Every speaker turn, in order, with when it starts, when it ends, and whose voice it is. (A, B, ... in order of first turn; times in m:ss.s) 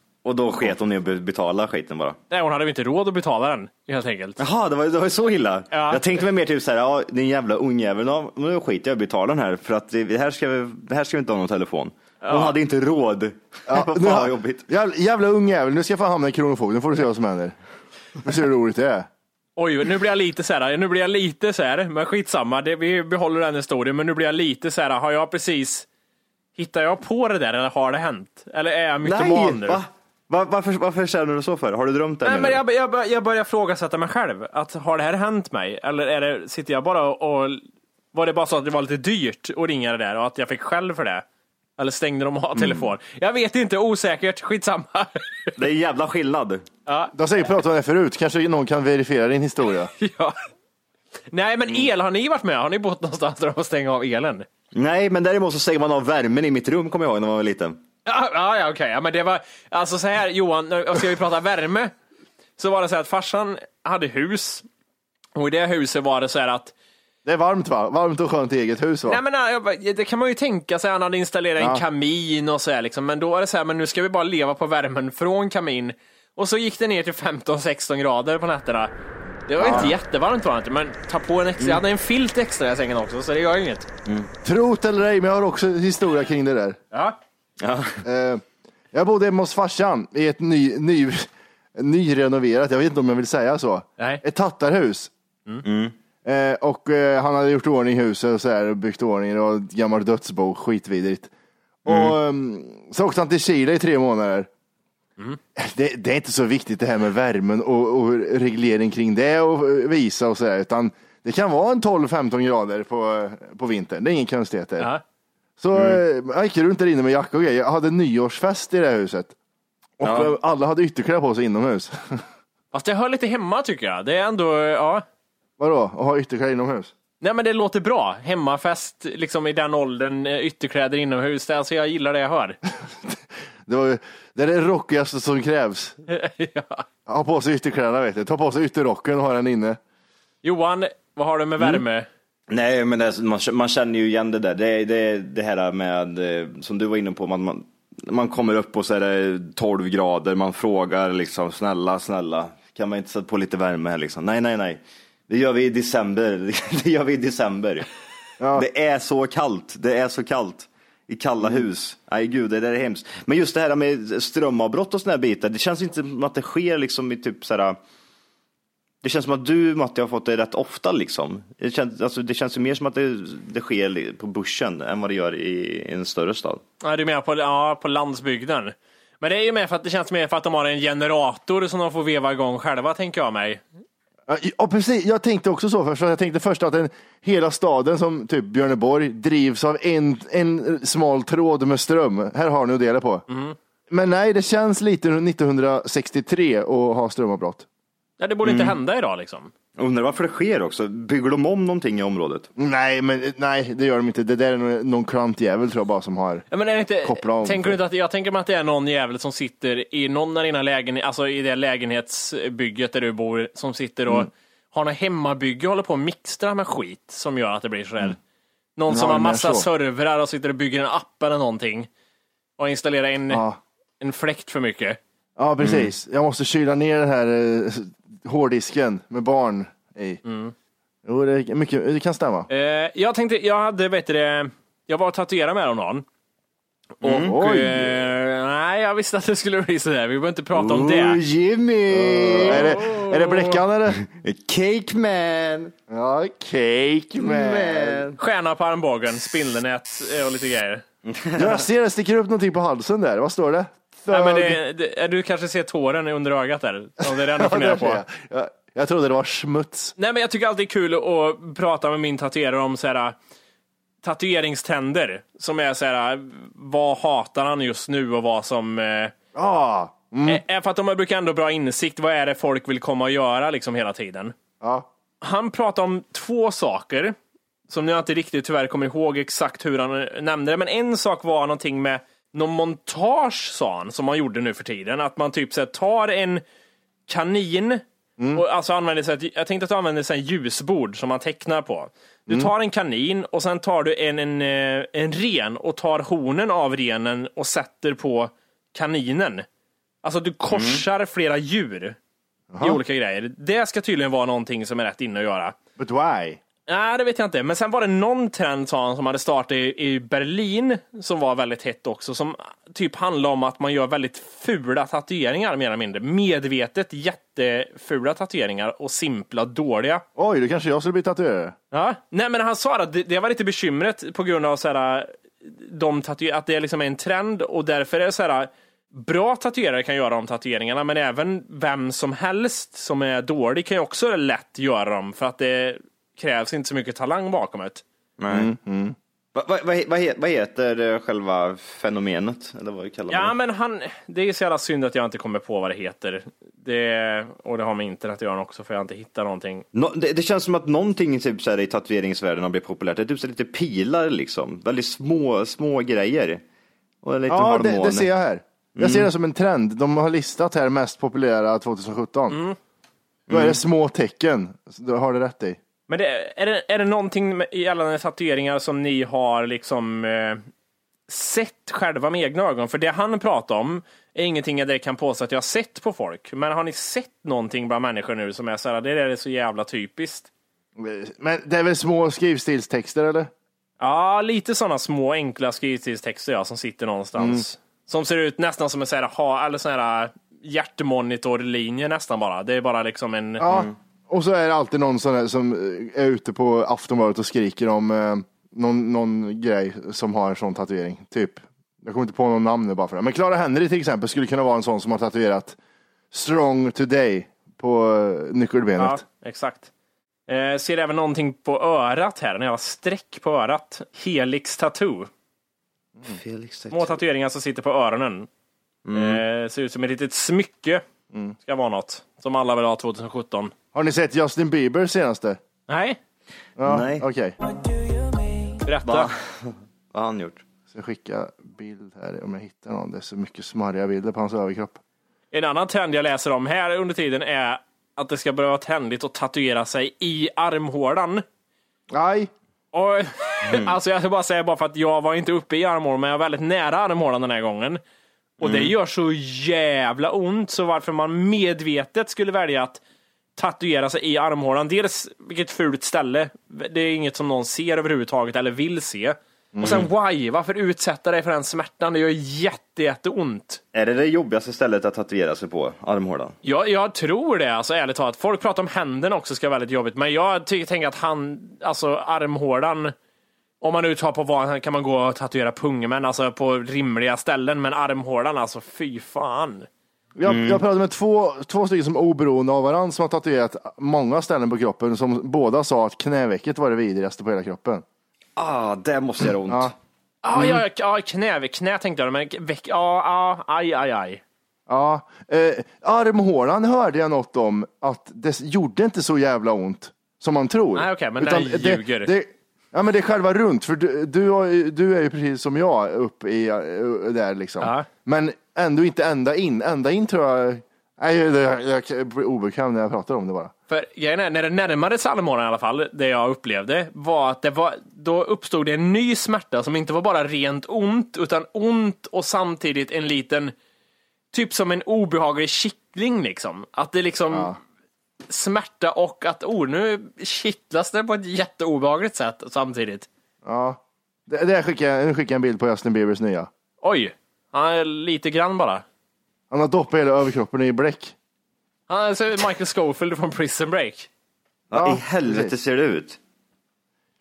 0:00.2-0:02.2 A
0:02.3-0:04.4 B
0:04.4-0:14.7 A
0:05.7-0:06.0 B
0:12.2-0:12.6 B
0:13.7-0:17.6 C
0:18.2-0:19.1 C
0:19.6-0:25.9 B
0:26.6-0:29.8 B
0:29.0-0:32.6 A
0:32.2-0:41.2 B
0:41.8-0:45.6 B
0:45.6-0:46.6 A
0:46.9-0:47.1 B
0:47.1-0:49.9 C
0:50.0-0:50.4 B
0:51.3-0:54.5 B
0:54.7-0:57.8 A
0:58.1-1:01.9 B
1:02.6-1:04.6 B
1:05.4-1:06.7 B
1:07.2-1:09.2 C
1:09.1-1:18.9 B
1:19.5-1:23.9 B
1:19.6-1:19.9 C
1:19.6-1:19.9 A
1:24.4-1:26.8 C
1:26.9-1:27.2 B
1:27.6-1:28.0 A
1:28.0-1:35.1 C
1:35.6-1:36.0 A
1:36.2-1:41.3 C
1:41.8-1:44.5 C
1:45.6-1:54.9 C
1:55.6-1:59.3 C
1:55.8-1:56.0 A
2:00.0-2:02.2 C
2:00.0-2:00.3 A
2:02.7-2:05.0 B
2:05.6-2:06.9 C
2:07.2-2:12.6 B
2:13.1-2:16.0 C
2:16.1-2:16.8 B
2:17.1-2:19.8 C
2:20.4-2:22.1 B
2:22.5-2:37.9 A
2:38.4-2:38.7 C
2:38.6-2:47.8 A
2:49.0-2:56.6 A
2:56.8-3:03.6 B
3:04.3-3:13.2 C
3:13.3-3:13.6 B
3:13.9-3:17.7 C
3:18.2-3:19.5 B
3:18.4-3:18.8 A
3:19.8-3:22.5 A
3:22.6-3:26.5 C
3:26.5-3:38.2 B
3:27.0-3:27.8 C
3:38.8-3:41.9 B
3:38.9-3:39.7 C
3:42.6-3:43.4 B
3:43.3-3:43.6 C
3:44.0-3:45.0 B
3:45.4-3:50.2 C
3:50.2-3:50.5 B
3:51.0-3:52.5 C
3:52.5-3:56.0 B
3:57.0-4:01.2 B
3:57.0-3:57.4 A
3:57.2-3:58.1 C
4:00.6-4:02.7 A
4:01.9-4:04.0 C
4:02.4-4:03.6 B
4:04.0-4:05.7 A
4:05.9-4:08.1 C
4:07.2-4:08.2 A
4:08.2-4:10.8 B
4:11.1-4:11.6 A
4:11.4-4:14.6 C
4:14.1-4:18.0 B
4:17.1-4:20.0 C
4:20.0-4:23.2 B
4:24.0-4:29.1 B
4:29.4-4:30.4 C
4:30.3-4:34.3 B
4:34.6-4:34.9 C
4:35.2-4:37.2 B
4:37.7-4:46.4 B
4:47.1-4:47.8 B
4:48.2-4:48.4 C
4:48.4-4:59.5 B
5:00.0-5:02.0 B
5:00.5-5:00.8 A
5:02.5-5:02.8 C
5:02.6-5:05.6 B
5:05.8-5:06.4 C
5:06.7-5:20.0 B
5:20.2-5:21.6 C
5:21.7-5:37.8 B
5:38.2-5:38.5 A
5:38.3-5:39.0 C
5:39.4-5:43.4 A
5:43.1-5:49.6 B
5:49.7-5:56.4 A
5:57.0-5:58.1 A
5:57.3-6:02.4 C
5:58.8-5:59.1 A
6:02.3-6:02.6 B
6:03.3-6:03.6 A
6:03.3-6:05.6 C
6:05.9-6:10.4 B
6:11.1-6:20.3 B
6:20.8-6:23.3 C
6:23.8-6:33.5 B
6:27.2-6:27.4 C
6:33.4-6:45.6 C
6:46.1-6:49.0 C
6:48.8-6:49.7 B
6:50.3-6:55.1 B
6:56.1-6:57.0 A
6:56.7-6:58.3 B
6:58.8-6:59.2 A
6:58.9-7:00.8 B
7:01.4-7:03.5 B
7:03.7-7:05.4 C
7:05.7-7:06.0 B
7:06.6-7:07.4 C
7:06.6-7:07.1 A
7:08.6-7:09.1 B
7:08.8-7:10.4 A
7:10.7-7:14.8 C
7:15.3-7:21.2 B
7:21.9-7:22.3 C
7:22.7-7:27.8 B
7:23.5-7:23.7 A
7:28.4-7:32.8 B
7:28.4-7:28.7 A
7:33.4-7:43.6 B
7:39.6-7:39.8 C
7:39.6-7:39.9 A
7:43.7-7:46.4 A
7:46.4-7:52.9 B
7:53.6-7:59.7 B
8:00.2-8:07.8 C
8:00.3-8:00.6 A
8:08.4-8:09.8 A
8:10.2-8:14.2 B
8:14.7-8:33.5 C
8:20.8-8:22.1 B
8:27.6-8:27.9 B
8:33.7-8:43.5 B
8:44.3-8:47.5 B
8:47.3-8:47.6 C
8:48.3-8:53.1 B
8:53.4-8:56.5 C
8:56.8-8:58.8 B
8:59.5-9:01.2 C
9:01.9-9:04.1 B
9:04.7-9:06.2 A
9:04.7-9:05.5 C